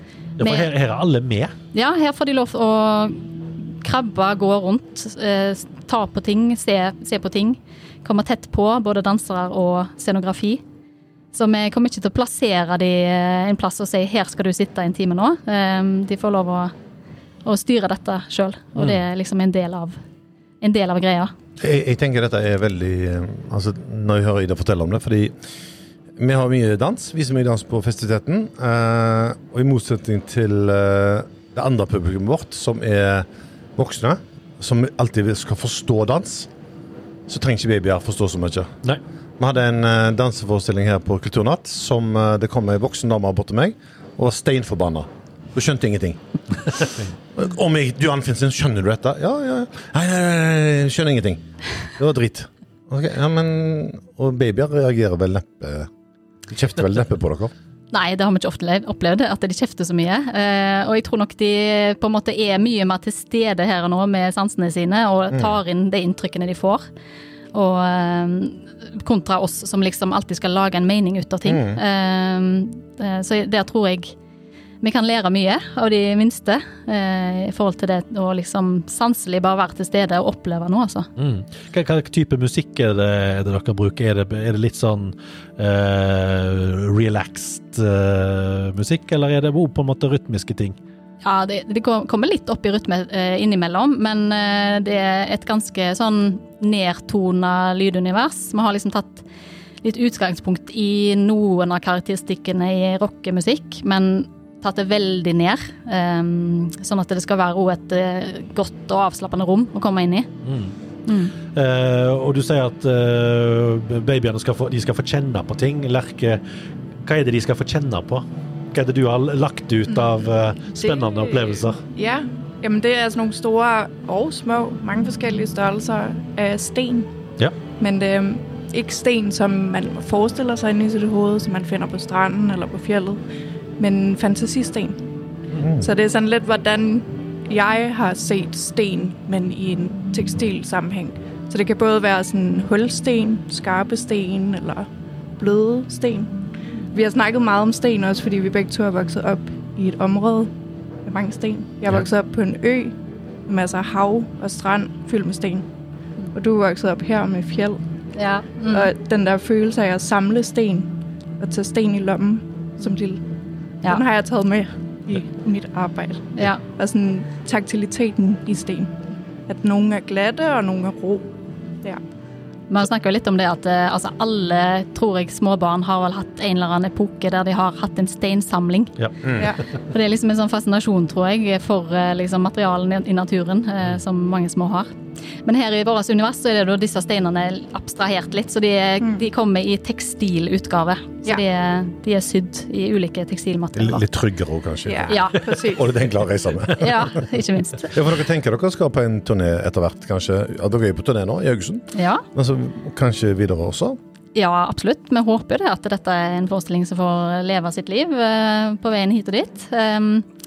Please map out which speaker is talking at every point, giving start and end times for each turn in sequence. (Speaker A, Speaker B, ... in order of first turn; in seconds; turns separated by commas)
Speaker A: 0.4-1.5, Speaker B: 0.4-0.7, Speaker B: 1.7-10.6, Speaker B: 11.3-16.7, Speaker B: 17.4-20.0, Speaker B: 20.6-21.3, Speaker C: 21.6-25.3, Speaker C: 26.2-36.5, Speaker C: 37.3-38.7, Speaker C: 39.4-46.2, Speaker C: 46.7-55.9, Speaker C: 56.5-57.5, Speaker B: 57.9-66.8, Speaker B: 67.5-74.1, Speaker C: 71.5-71.8, Speaker B: 74.8-81.1, Speaker A: 81.2-90.8, Speaker B: 91.2-99.2, Speaker B: 99.8-110.3, Speaker A: 110.4-110.7, Speaker B: 111.1-111.3, Speaker A: 111.5-116.4, Speaker A: 117.0-121.8, Speaker D: 119.9-120.1, Speaker D: 120.8-127.1, Speaker D: 127.8-133.2, Speaker D: 133.8-135.0, Speaker C: 135.6-135.9, Speaker D: 135.8-144.9, Speaker D: 145.4-146.4, Speaker D: 146.9-150.5, Speaker D: 151.0-155.7, Speaker D: 156.3-157.8, Speaker B: 158.2-158.9, Speaker D: 158.7-163.2, Speaker D: 163.8-171.3, Speaker B: 166.3-166.6, Speaker B: 172.7-178.9, Speaker A: 179.0-179.5, Speaker B: 179.9-184.9, Speaker B: 185.4-194.0, Speaker C: 193.7-197.2, Speaker D: 194.8-195.9, Speaker B: 195.1-195.4, Speaker B: 196.7-198.0, Speaker C: 197.9-204.0, Speaker B: 201.9-202.2, Speaker B: 204.3-210.3